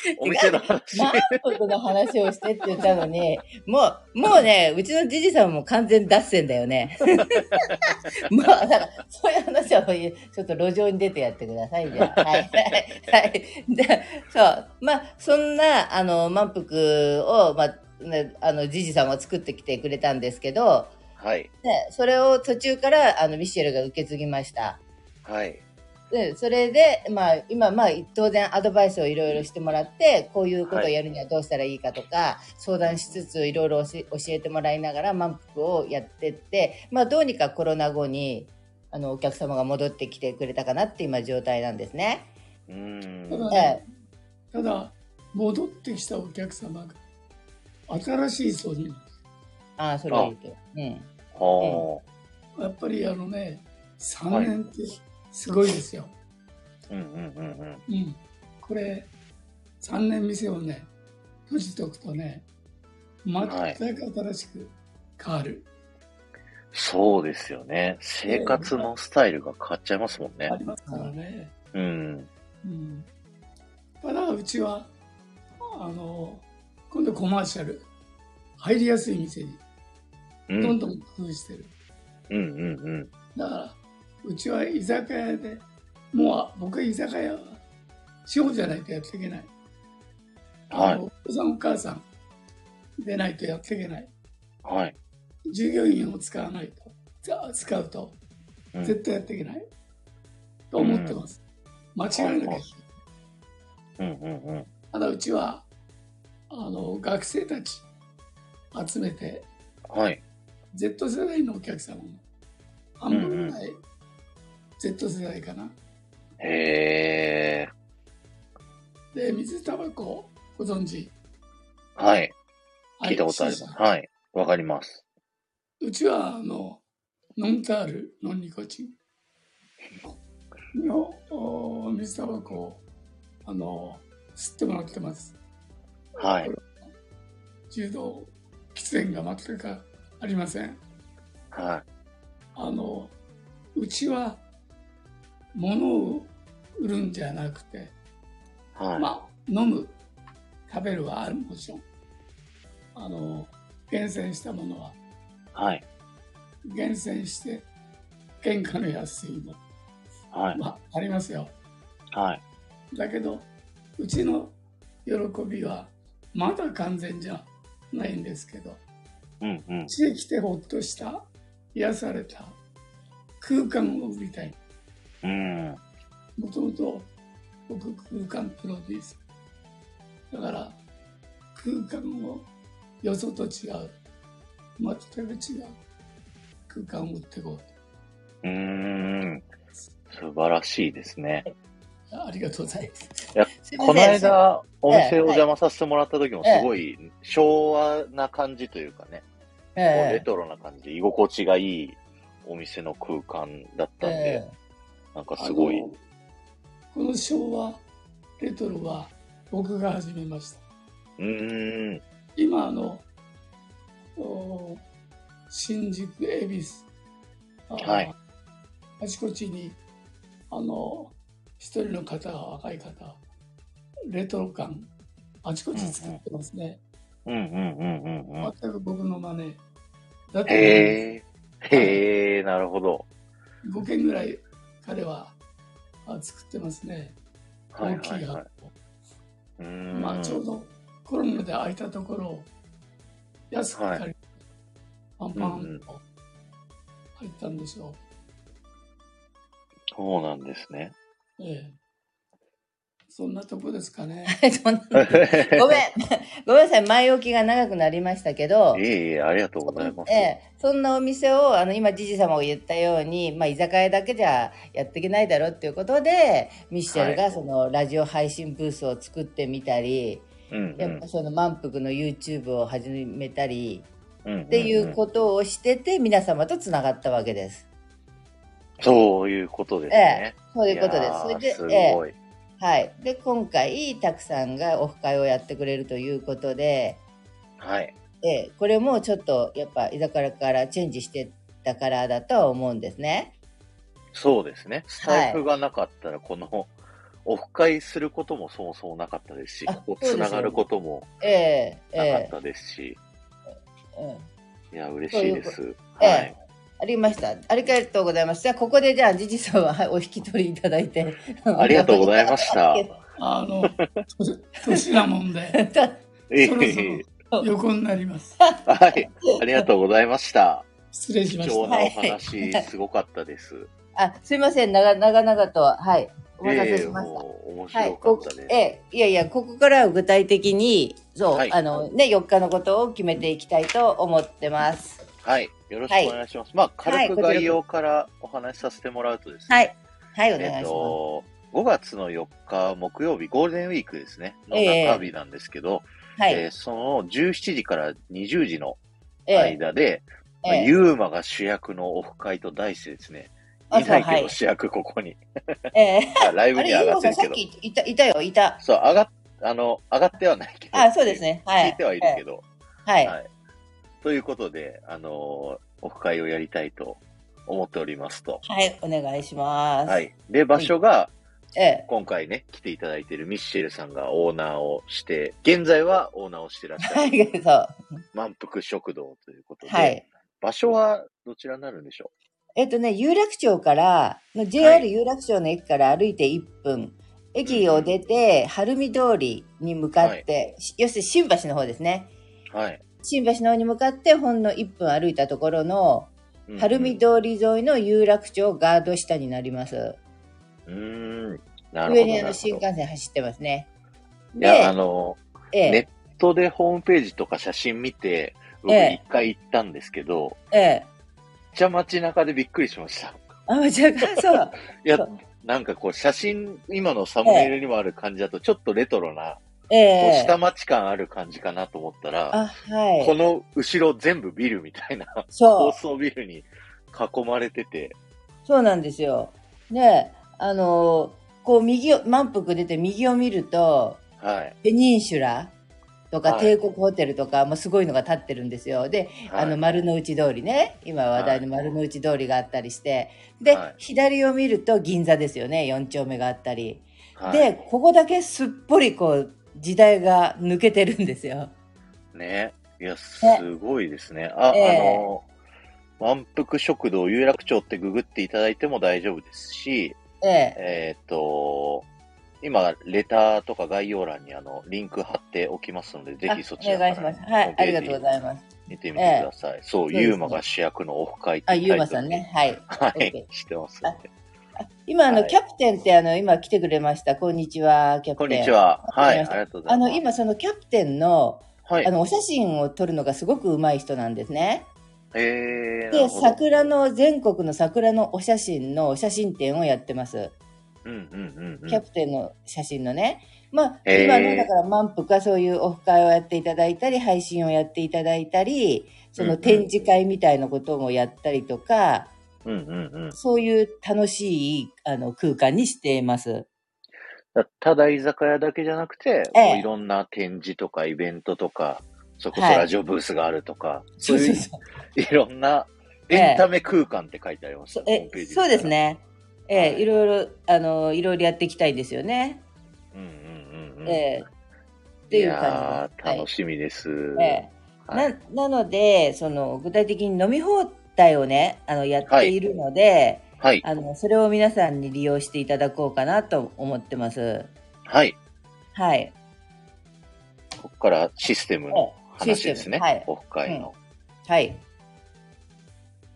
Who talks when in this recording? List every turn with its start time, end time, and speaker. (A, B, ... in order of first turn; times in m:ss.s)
0:00.2-0:01.4 A
0:00.2-0:20.9 B
0:12.0-0:13.2 A
0:21.2-0:21.5 A
0:21.6-0:24.8 B
0:25.2-0:25.6 A
0:26.1-0:42.3 B
0:30.6-0:30.9 A
0:32.8-0:33.3 A
0:42.7-0:43.5 A
0:43.3-0:43.8 C
0:43.5-0:43.8 B
0:44.5-0:47.0 C
0:47.9-0:49.1 C
0:49.8-0:51.8 B
0:51.3-0:52.0 A
0:52.6-0:56.1 C
0:54.3-0:54.5 A
0:56.9-0:57.8 A
0:57.9-0:59.1 C
0:59.8-1:00.9 C
1:01.5-1:02.4 C
1:03.2-1:05.7 C
1:03.4-1:03.8 A
1:06.7-1:10.5 A
1:08.2-1:08.9 C
1:10.5-1:11.5 C
1:11.7-1:12.3 A
1:12.6-1:13.1 C
1:14.0-1:14.9 C
1:15.7-1:17.9 C
1:18.6-1:19.6 C
1:20.5-1:20.8 A
1:20.6-1:21.7 C
1:22.3-1:23.1 A
1:23.3-1:27.6 C
1:28.2-1:29.5 C
1:30.7-1:32.1 C
1:30.7-1:31.0 A
1:33.0-1:34.1 C
1:34.6-1:35.0 A
1:35.5-1:38.2 C
1:38.8-1:39.6 C
1:40.7-1:41.4 C
1:40.8-1:41.2 A
1:41.9-1:42.8 C
1:42.1-1:42.6 A
1:44.0-1:44.7 A
1:44.9-1:45.7 C
1:46.5-1:47.9 C
1:48.7-1:49.5 C
1:49.9-1:50.2 A
1:50.7-1:52.2 C
1:53.0-1:53.8 C
1:53.1-1:53.6 A
1:54.8-1:55.8 C
1:56.4-1:57.7 A
1:59.1-2:01.1 C
2:02.0-2:02.3 A
2:03.0-2:03.8 C
2:03.0-2:05.0 A
2:05.8-2:06.8 C
2:07.4-2:08.9 C
2:10.7-2:12.8 C
2:13.4-2:15.4 C
2:16.2-2:16.5 A
2:16.2-2:16.7 C
2:17.7-2:20.8 C
2:21.5-2:21.8 A
2:22.6-2:23.1 C
2:23.8-2:24.4 C
2:25.5-2:27.9 C
2:28.7-2:29.1 A
2:29.0-2:30.0 C
2:30.7-2:31.8 C
2:32.9-2:35.0 C
2:35.5-2:35.8 A
2:36.6-2:37.7 C
2:38.4-2:39.6 C
2:40.3-2:40.6 A
2:40.5-2:41.5 C
2:42.1-2:42.4 A
2:42.9-2:48.8 C
2:49.4-2:49.9 A
2:49.9-2:52.6 C
2:53.4-2:54.6 C
2:55.2-2:55.8 A
2:56.4-2:57.1 C
2:57.7-2:59.2 C
3:00.3-3:00.8 C
3:01.5-3:02.5 C
3:03.0-3:04.0 C
3:04.8-3:05.8 C
3:06.7-3:07.7 C
3:08.4-3:09.5 A
3:10.1-3:11.4 A
3:12.1-3:13.0 C
3:13.3-3:19.2 A
3:13.6-3:14.4 B
3:14.9-3:15.4 B
3:19.8-3:20.2 B
3:19.9-3:24.4 A
3:24.0-3:24.5 B
3:25.1-3:25.9 A
3:25.4-3:26.0 C
3:26.9-3:27.8 C
3:28.4-3:30.6 C
3:31.2-3:32.0 A
3:32.4-3:33.0 C
3:34.2-3:34.8 C
3:35.5-3:36.8 C
3:37.7-3:38.1 C
3:37.8-3:38.1 A
3:39.0-3:39.8 C
3:40.5-3:43.2 C
3:44.1-3:44.9 C
3:45.4-3:46.8 C
3:45.7-3:46.2 A
3:47.2-3:48.5 A
3:48.4-3:49.6 C
3:50.3-3:51.0 C
3:50.5-3:53.1 A
3:51.7-3:52.0 C
3:53.6-3:55.4 C
3:56.0-3:57.2 C
3:57.7-3:58.4 A
3:57.8-3:58.7 C
3:59.6-4:00.4 A
3:59.9-4:02.5 C
4:03.5-4:04.2 C
4:03.7-4:04.0 A
4:05.2-4:06.0 C
4:05.4-4:05.8 A
4:07.2-4:08.0 C
4:09.9-4:10.9 A
4:11.4-4:11.7 C
4:13.1-4:14.4 C
4:14.3-4:18.8 B
4:15.0-4:15.8 A
4:18.7-4:20.3 A
4:19.6-4:33.9 B
4:26.9-4:27.4 A
4:30.5-4:31.0 A
4:34.2-4:35.0 A
4:34.5-4:37.6 B
4:38.8-4:42.2 A
4:39.9-4:42.0 B
4:42.6-4:47.0 B
4:47.6-4:47.9 A
4:48.2-4:53.3 B
4:54.1-4:56.7 A
4:55.0-4:55.4 B
4:57.2-5:01.1 A
4:59.7-5:00.6 B
5:01.2-5:02.3 B
5:02.0-5:03.0 A
5:03.9-5:04.2 B
5:04.7-5:06.3 A
5:05.1-5:12.9 B
5:11.6-5:12.9 A
5:13.2-5:15.6 C
5:15.5-5:16.0 B
5:16.3-5:17.0 A
5:16.4-5:18.4 C
5:18.4-5:19.7 B
5:18.6-5:20.7 A
5:20.9-5:21.7 C
5:21.4-5:23.7 A
5:21.6-5:22.6 B
5:24.0-5:35.0 B
5:26.4-5:28.6 A
5:35.2-5:39.7 A
5:35.9-5:36.2 B
5:36.8-5:37.6 B
5:39.5-5:41.0 B
5:40.4-5:48.8 A
5:44.5-5:45.1 B
5:46.2-5:46.4 B
5:49.3-5:49.6 B
5:49.3-5:55.2 A
5:50.4-5:50.7 B
5:53.7-5:54.3 B
5:55.7-5:58.6 B
5:56.2-5:57.4 A
5:58.6-6:02.4 A
6:00.7-6:02.2 B
6:02.8-6:03.2 B
6:04.0-6:08.4 A
6:08.4-6:10.7 B
6:09.8-6:11.1 A
6:11.5-6:11.9 B
6:11.9-6:17.2 A
6:16.8-6:17.8 B
6:18.1-6:22.1 A
6:19.6-6:20.0 B
6:22.6-6:32.1 B
6:24.6-6:24.8 A
6:27.4-6:27.9 A
6:32.5-6:32.8 A
6:33.0-6:40.0 B
6:36.5-6:37.0 A
6:40.7-6:42.6 A
6:41.8-6:43.7 B
6:44.3-6:44.7 B
6:44.4-6:50.4 A
6:45.5-6:45.8 B
6:48.7-6:49.0 B
6:50.5-6:50.9 B
6:51.5-6:53.2 A
6:53.5-6:55.2 B
6:54.7-6:59.4 A
6:57.2-6:57.5 B
6:59.7-7:00.4 B
7:00.0-7:02.4 A
7:02.3-7:03.1 B
7:03.0-7:08.0 A
7:05.3-7:05.8 B
7:08.4-7:14.0 B
7:14.2-7:14.6 A
7:14.6-7:15.5 B
7:16.1-7:31.5 B
7:16.2-7:16.5 A
7:19.3-7:19.6 A
7:21.2-7:21.7 A
7:23.5-7:23.8 A
7:27.2-7:27.6 A
7:32.1-7:35.2 A
7:34.5-7:35.0 B
7:36.0-7:40.0 A
7:40.2-7:40.6 B
7:40.6-7:41.9 A
7:42.4-7:54.0 A
7:46.3-7:49.3 B
7:49.9-7:50.4 B
7:51.5-7:53.2 B
7:54.6-8:04.7 B
7:55.1-7:55.4 A
7:58.2-8:00.0 A
8:01.6-8:01.9 A
8:05.1-8:06.4 A
8:05.9-8:10.3 B
8:10.8-8:11.8 A
8:11.7-8:22.1 B
8:13.8-8:14.5 A
8:19.2-8:19.7 A
8:22.4-8:23.2 A
8:23.2-8:26.5 B
8:27.3-8:38.7 A
8:29.3-8:29.7 B
8:32.3-8:32.7 B
8:34.0-8:34.6 B
8:36.1-8:36.4 B
8:37.7-8:42.4 B
8:39.5-8:39.8 A
8:42.9-8:44.0 A
8:43.8-8:44.3 B
8:45.1-8:46.3 B
8:45.1-8:48.1 A
8:47.2-8:57.5 B
8:52.0-8:52.3 A
8:53.4-8:53.6 A
8:57.8-8:58.2 A
8:58.7-8:59.1 B
9:00.6-9:03.7 A
9:01.7-9:03.7 B
9:04.2-9:04.6 B